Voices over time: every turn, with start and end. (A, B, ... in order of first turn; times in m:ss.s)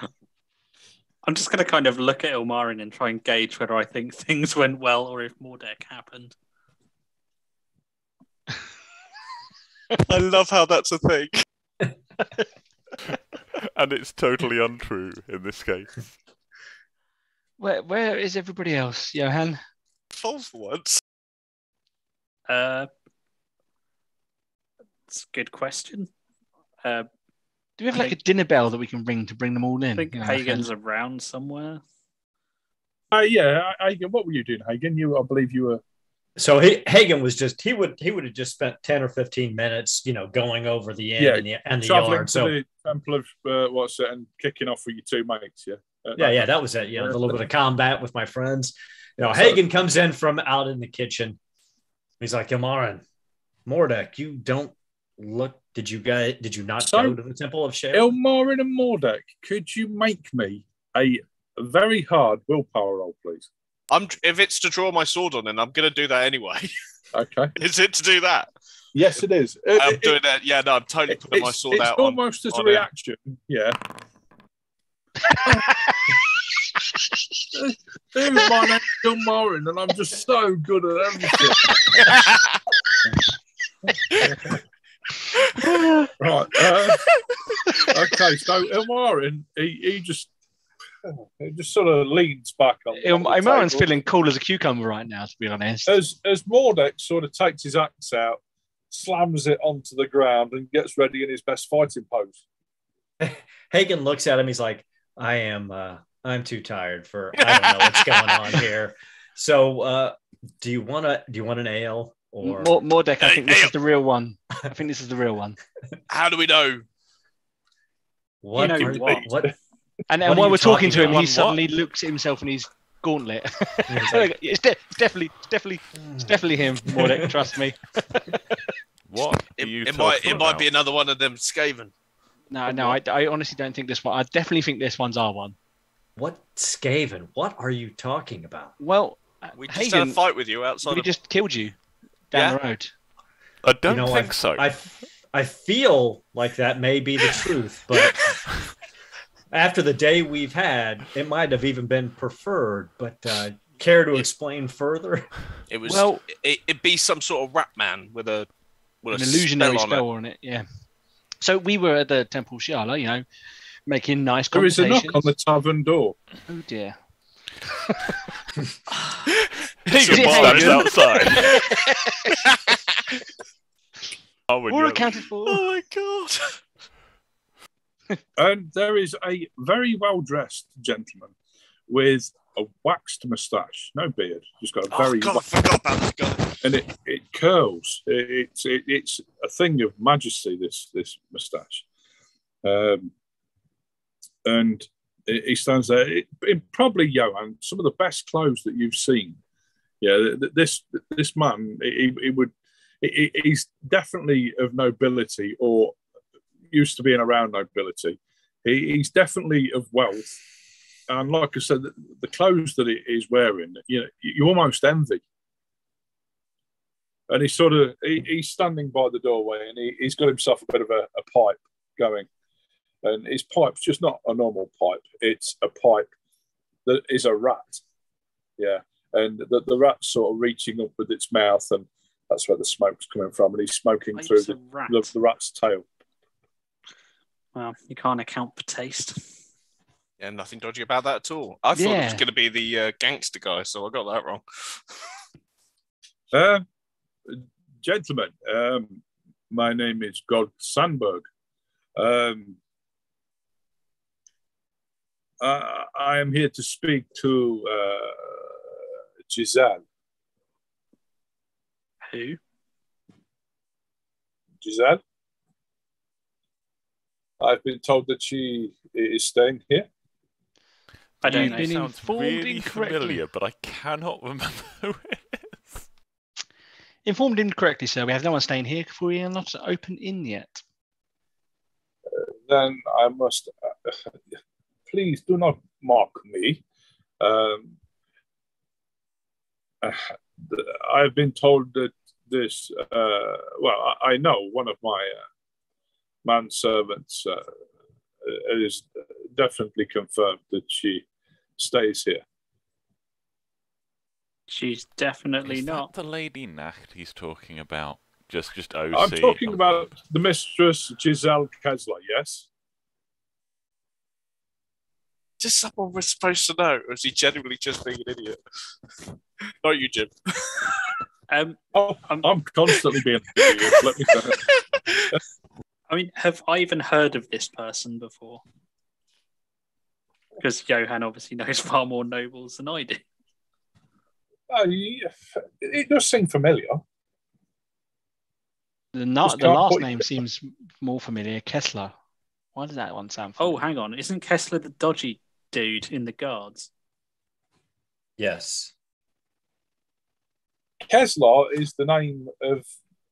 0:01.2-0:06.4 A
0:10.0-0:11.4 B
0:13.6-0:16.0 C
0:17.6-0:19.6 D
0:20.1-0:21.0 B
0:22.5-0:22.9 A
0:25.1-0:26.1 A
0:26.8-0:27.1 A
0:27.8-0:30.7 D
0:30.0-0:31.8 A
0:33.1-0:35.8 E
0:36.4-0:42.6 F
0:41.2-0:47.4 E
0:46.2-0:51.4 F
0:49.2-0:49.6 E
0:52.2-0:53.0 F
0:53.6-0:58.1 F
0:56.8-0:57.2 E
0:57.9-1:03.5 E
1:03.9-1:06.7 B
1:07.1-1:07.5 E
1:07.6-1:08.5 B
1:08.9-1:10.2 E
1:09.8-1:12.8 B
1:11.1-1:13.8 E
1:17.5-1:22.1 E
1:24.1-1:24.6 E
1:25.6-1:26.1 D
1:26.2-1:27.1 E
1:27.8-1:30.3 E
1:31.1-1:33.9 E
1:33.0-1:35.9 D
1:35.8-1:42.4 E
1:43.2-1:52.8 F
1:47.4-1:48.2 B
1:52.4-1:55.6 D
1:53.2-1:53.7 B
1:56.1-1:56.8 B
1:58.4-1:59.5 F
1:58.6-1:59.3 A
1:58.8-1:59.2 E
2:00.1-2:08.6 D
2:00.2-2:01.2 F
2:00.8-2:01.6 C
2:03.9-2:04.3 F
2:06.0-2:07.4 F
2:09.1-2:10.7 C
2:09.4-2:11.9 B
2:12.5-2:15.6 D
2:16.2-2:18.7 F
2:18.8-2:20.2 D
2:19.6-2:21.1 B
2:20.8-2:21.8 D
2:22.3-2:22.9 D
2:22.3-2:22.6 B
2:23.6-2:24.7 C
2:23.9-2:28.4 F
2:29.5-2:35.3 F
2:35.7-2:38.5 B
2:35.8-2:36.2 D
2:39.0-2:40.0 B
2:39.1-2:40.6 D
2:41.4-2:43.2 D
2:43.8-2:45.3 D
2:44.5-2:46.2 E
2:46.5-2:47.0 D
2:49.9-2:51.6 C
2:49.9-2:50.8 B
2:50.0-2:52.5 D
2:50.2-2:50.6 E
2:52.4-2:53.2 B
2:54.5-2:55.3 C
2:54.7-2:55.6 D
2:55.5-2:56.6 B
2:58.4-3:01.3 E
3:01.9-3:05.4 E
3:04.9-3:06.6 B
3:06.6-3:11.8 E
3:12.6-3:13.1 E
3:14.4-3:19.4 E
3:20.0-3:26.0 E
3:26.7-3:30.4 E
3:31.1-3:35.2 E
3:37.3-3:42.3 E
3:43.0-3:46.1 E
3:46.8-3:47.8 E
3:48.6-3:55.8 E
3:54.2-3:55.1 A
3:57.6-3:59.2 A
4:00.2-4:05.2 B
4:01.8-4:02.2 D
4:06.3-4:06.6 E
4:07.3-4:11.3 E
4:12.0-4:12.6 E
4:15.4-4:18.6 E
4:19.3-4:19.8 E
4:22.1-4:22.4 A
4:24.6-4:25.0 E
4:27.4-4:29.9 E
4:31.2-4:35.8 C
4:31.2-4:31.7 A
4:31.2-4:33.2 D
4:37.1-4:40.6 D
4:42.1-4:44.1 E
4:44.9-4:46.6 E
4:47.2-4:47.7 E
4:49.8-4:55.2 E
4:56.2-4:57.5 E
4:58.2-5:01.0 E
5:01.6-5:02.2 E
5:04.5-5:05.9 A
5:05.4-5:09.9 C
5:08.9-5:12.5 E
5:15.4-5:18.4 B
5:19.6-5:21.0 B
5:21.3-5:22.3 A
5:21.7-5:24.4 E
5:23.4-5:25.1 B
5:25.9-5:28.4 A
5:30.4-5:33.0 A
5:34.5-5:36.8 E
5:38.9-5:41.9 D
5:39.2-5:40.1 E
5:42.6-5:43.6 D
5:43.4-5:46.7 A
5:48.2-5:48.7 F
5:50.9-5:52.7 E